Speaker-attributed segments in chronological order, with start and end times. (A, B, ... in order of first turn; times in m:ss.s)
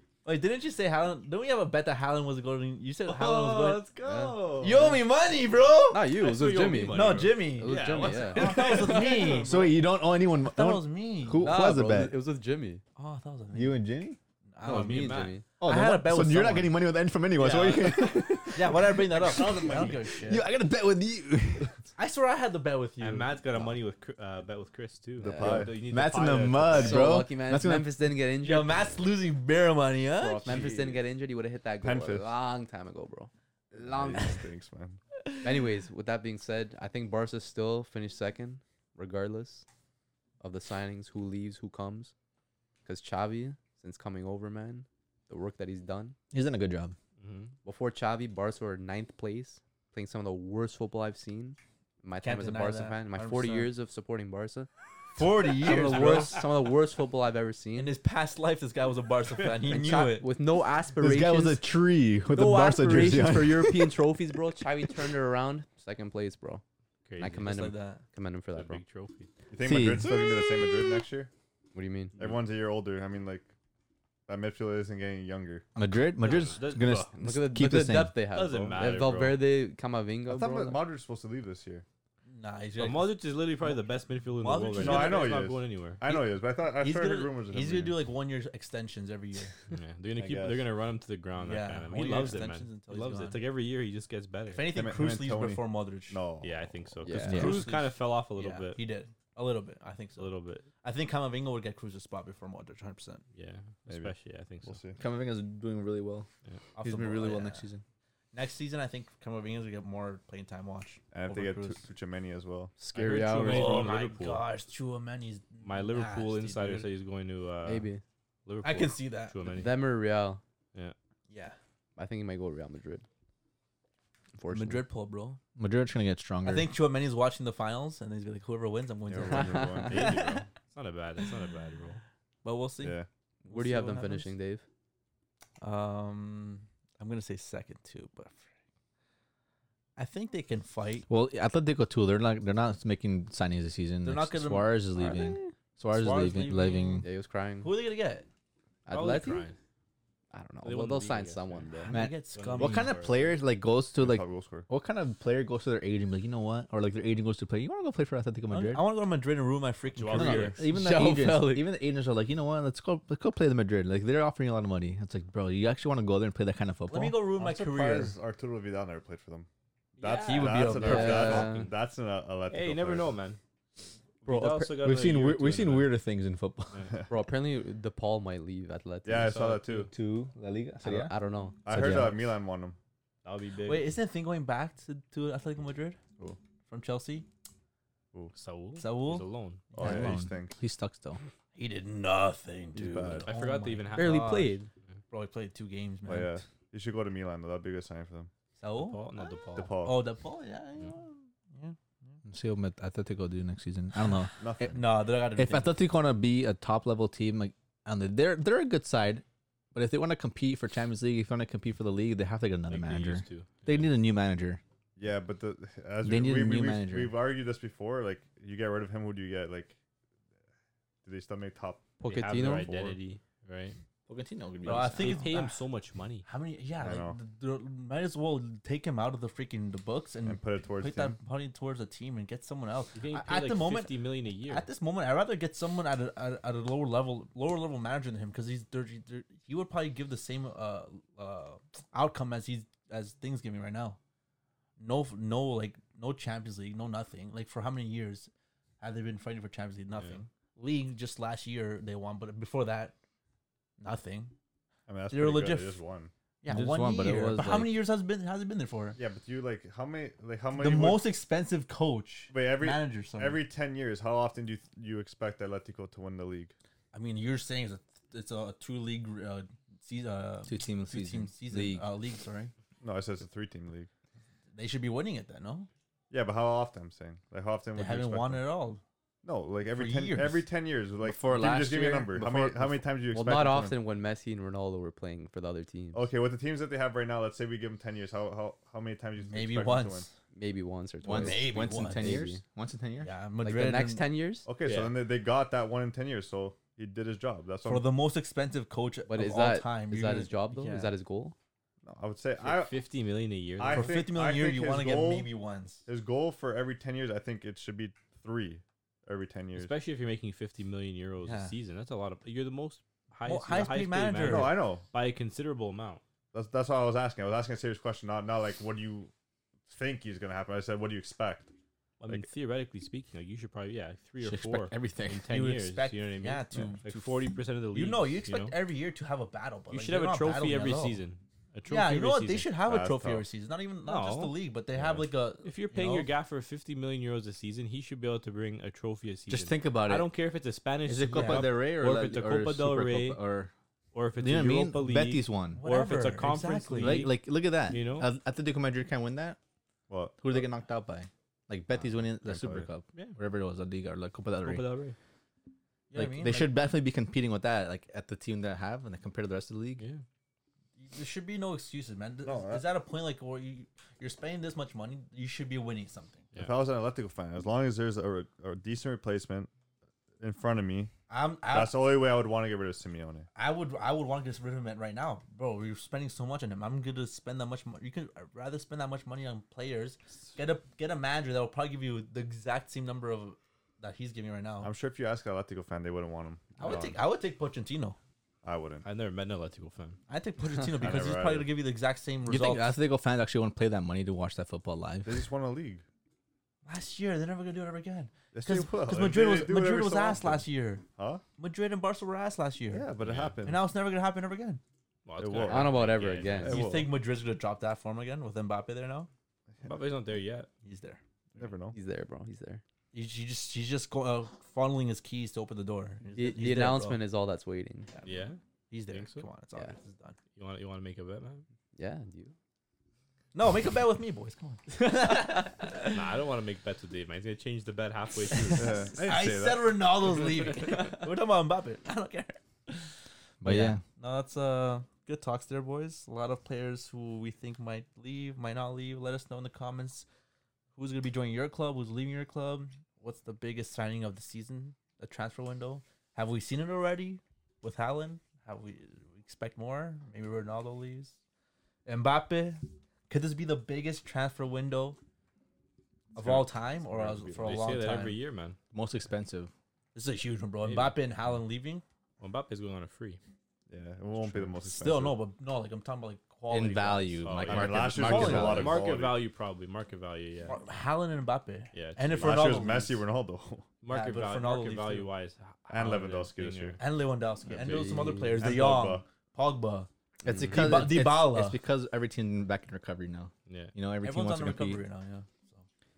0:00.2-0:03.8 A
0:03.1-0:04.9 B
0:04.0-0:05.0 C
0:04.6-0:06.1 A
0:05.9-0:09.4 C
0:06.2-0:07.3 D
0:06.8-0:07.4 B
0:06.8-0:09.6 A
0:08.0-0:09.8 B
0:09.4-0:12.2 E
0:10.3-0:11.4 A
0:11.4-0:12.8 C
0:13.0-0:13.8 A
0:13.5-0:14.2 E
0:14.5-0:20.5 A
0:14.6-0:15.4 C
0:14.7-0:15.4 D
0:15.6-0:21.8 E
0:19.2-0:19.9 C
0:22.0-0:23.7 A
0:23.0-0:27.1 D
0:25.2-0:25.7 B
0:25.2-0:25.7 C
0:25.9-0:28.0 E
0:26.7-0:28.8 C
0:28.4-0:30.6 A
0:30.2-0:31.0 B
0:30.4-0:34.4 C
0:31.8-0:32.3 B
0:33.7-0:35.0 B
0:35.4-0:39.6 C
0:40.4-0:42.1 C
0:42.8-0:46.2 C
0:46.3-0:47.0 E
0:47.2-0:47.5 D
0:47.6-0:54.7 C
0:52.2-0:53.7 A
0:55.1-0:56.4 A
0:55.4-0:58.0 C
0:57.7-1:00.3 A
0:59.7-1:01.7 C
1:01.0-1:03.9 E
1:02.3-1:06.6 C
1:02.4-1:03.4 A
1:03.0-1:03.5 B
1:07.0-1:07.6 D
1:07.2-1:08.8 C
1:07.4-1:08.0 A
1:08.5-1:09.3 D
1:09.5-1:11.3 B
1:09.6-1:10.3 E
1:11.7-1:12.2 C
1:12.2-1:13.5 B
1:14.3-1:15.6 B
1:15.8-1:18.2 E
1:16.2-1:17.1 D
1:17.1-1:20.8 C
1:18.3-1:19.4 D
1:20.2-1:21.8 B
1:22.2-1:25.5 A
1:22.8-1:26.0 D
1:24.7-1:28.0 B
1:26.8-1:29.6 A
1:29.7-1:34.7 D
1:30.2-1:30.7 B
1:31.4-1:33.4 A
1:34.5-1:36.2 A
1:34.7-1:36.9 B
1:36.4-1:38.8 D
1:37.0-1:37.6 C
1:37.1-1:37.6 E
1:37.3-1:43.2 A
1:40.2-1:40.6 D
1:43.3-1:44.8 D
1:43.9-1:44.1 B
1:44.6-1:45.0 B
1:45.0-1:46.3 E
1:46.8-1:47.6 A
1:46.8-1:47.8 E
1:48.3-1:51.9 A
1:51.1-1:52.8 B
1:52.8-1:54.0 C
1:52.9-1:54.5 D
1:53.4-1:56.9 A
1:55.6-1:57.9 D
1:57.6-1:58.0 C
1:58.4-1:59.8 D
1:58.6-1:59.4 A
1:59.4-2:00.4 C
2:01.3-2:01.6 A
2:02.0-2:03.0 C
2:04.3-2:04.8 C
2:04.5-2:05.4 A
2:05.6-2:06.7 E
2:06.4-2:10.4 A
2:09.1-2:10.4 B
2:09.2-2:10.1 C
2:09.9-2:12.0 D
2:12.4-2:14.3 A
2:12.8-2:13.1 B
2:13.4-2:14.6 C
2:15.6-2:18.4 A
2:20.0-2:21.1 A
2:21.1-2:27.0 E
2:24.0-2:25.2 A
2:25.0-2:25.5 C
2:25.9-2:27.1 A
2:27.0-2:27.7 C
2:27.6-2:28.3 A
2:28.9-2:29.5 C
2:28.9-2:29.6 D
2:30.3-2:32.0 C
2:30.6-2:33.3 D
2:31.9-2:33.3 A
2:31.9-2:38.8 E
2:34.0-2:34.7 B
2:38.5-2:40.8 A
2:40.0-2:40.6 D
2:40.1-2:47.2 E
2:40.7-2:41.7 C
2:46.9-2:48.1 A
2:47.4-2:49.5 B
2:50.0-2:53.2 B
2:50.0-2:51.7 D
2:50.0-2:51.5 A
2:50.8-2:51.7 C
2:52.5-2:53.4 D
2:54.2-2:55.9 D
2:54.2-2:56.8 E
2:57.1-2:59.4 C
2:59.0-2:59.9 B
2:59.1-2:59.9 D
2:59.8-3:01.1 E
3:00.8-3:01.6 C
3:01.6-3:02.8 B
3:01.7-3:02.2 E
3:03.2-3:03.9 D
3:03.6-3:06.0 A
3:06.7-3:07.2 A
3:08.3-3:09.6 D
3:08.8-3:10.2 A
3:09.8-3:10.6 B
3:09.8-3:11.2 E
3:11.5-3:14.6 A
3:12.8-3:13.3 B
3:13.1-3:14.4 D
3:13.9-3:14.7 C
3:15.1-3:16.4 A
3:16.0-3:18.3 B
3:18.6-3:19.1 A
3:18.8-3:19.8 D
3:19.6-3:20.1 B
3:19.8-3:22.2 A
3:22.2-3:34.6 E
3:24.4-3:24.8 B
3:24.6-3:25.8 A
3:32.7-3:33.9 D
3:35.0-3:39.8 B
3:36.0-3:37.1 E
3:41.0-3:41.9 B
3:42.0-3:42.7 C
3:42.1-3:43.8 D
3:42.6-3:43.0 B
3:44.1-3:45.3 E
3:44.6-3:45.6 A
3:44.9-3:46.2 D
3:46.2-4:04.0 A
3:46.8-3:47.2 B
3:50.2-3:51.2 B
3:53.0-3:54.7 D
4:04.8-4:12.9 A
4:13.8-4:14.3 A
4:14.9-4:16.1 B
4:15.1-4:15.8 A
4:16.4-4:19.0 A
4:16.5-4:17.8 E
4:19.0-4:21.1 B
4:20.6-4:23.4 A
4:22.3-4:26.5 B
4:26.9-4:32.5 A
4:30.5-4:31.9 E
4:32.8-4:33.9 B
4:34.5-4:35.7 A
4:36.1-4:38.4 B
4:37.7-4:38.8 A
4:39.2-4:43.8 B
4:39.7-4:40.5 A
4:41.0-4:42.8 E
4:43.1-4:46.1 C
4:45.9-4:50.1 B
4:49.2-4:50.1 A
4:50.3-4:52.4 C
4:51.0-4:53.1 E
4:51.1-4:52.2 A
4:53.0-4:54.0 A
4:53.4-4:54.5 C
4:54.4-4:57.9 B
4:54.6-4:55.0 D
4:57.6-5:00.9 A
4:59.1-5:01.3 C
5:01.8-5:02.8 B
5:02.4-5:03.9 D
5:03.6-5:05.3 B
5:03.6-5:05.8 A
5:05.9-5:09.7 B
5:09.5-5:16.0 D
5:11.2-5:11.5 A
5:13.2-5:14.5 A
5:14.2-5:14.8 B
5:16.3-5:19.1 B
5:19.7-5:21.5 B
5:22.0-5:28.6 D
5:24.2-5:25.3 E
5:25.3-5:31.0 A
5:29.7-5:32.5 D
5:31.7-5:36.1 A
5:32.6-5:33.2 B
5:33.8-5:43.2 D
5:39.3-5:40.1 E
5:40.8-5:43.5 E
5:41.1-5:41.6 A
5:43.9-5:48.1 D
5:44.2-5:45.6 E
5:45.5-5:47.1 A
5:46.8-5:49.4 E
5:49.9-5:50.5 B
5:50.2-5:54.6 E
5:52.2-5:52.7 B
5:54.4-5:55.0 D
5:55.9-5:56.7 A
5:56.0-5:59.8 E
6:00.8-6:06.3 A
6:02.2-6:02.6 B
6:06.4-6:09.5 B
6:10.2-6:10.9 B
6:11.1-6:11.9 A
6:11.5-6:13.3 B
6:13.4-6:24.7 A
6:24.6-6:27.0 B
6:26.6-6:28.0 A
6:28.4-6:28.8 B
6:28.8-6:30.0 D
6:30.1-6:32.8 A
6:30.7-6:31.5 B
6:32.3-6:35.2 E
6:35.0-6:35.8 B
6:36.6-6:40.8 A
6:38.3-6:41.2 B
6:41.4-6:42.8 A
6:42.7-6:43.6 B
6:43.0-6:43.4 D
6:43.4-6:44.6 A
6:45.0-6:46.6 D
6:45.2-6:46.9 B
6:45.4-6:46.6 C
6:46.4-6:49.1 A
6:49.6-6:50.5 D
6:50.6-6:51.4 A
6:51.4-6:51.8 B
6:51.7-6:52.6 C
6:52.9-6:57.0 A
6:56.1-6:57.9 C
6:58.0-6:59.3 D
6:58.7-7:00.2 A
7:00.3-7:01.4 D
7:01.8-7:02.3 C
7:03.3-7:06.0 A
7:05.8-7:08.8 D
7:08.3-7:12.9 A
7:08.6-7:09.8 B
7:10.1-7:11.0 D
7:13.4-7:13.8 E
7:13.4-7:20.0 A
7:20.7-7:31.2 A
7:31.8-7:35.0 A
7:36.1-7:38.2 A
7:36.2-7:37.6 B
7:37.4-7:38.6 D
7:38.7-7:39.5 E
7:39.9-7:41.8 A
7:40.6-7:41.0 D
7:42.2-7:43.2 D
7:43.7-7:45.2 B
7:44.2-7:48.8 A
7:46.5-7:48.8 E
7:47.2-7:50.6 D
7:47.4-7:49.2 B
7:50.4-7:53.0 A
7:51.7-7:52.7 D
7:52.2-7:53.7 B
7:53.8-7:56.8 D
7:53.9-7:55.1 A
7:55.7-7:56.8 B
7:56.8-7:59.9 A
7:57.5-7:57.8 D
7:57.6-7:58.6 C
7:58.4-7:59.0 B
8:00.2-8:04.8 E
8:00.2-8:00.8 C
8:00.5-8:01.6 A
8:03.5-8:03.7 D
8:04.0-8:05.6 A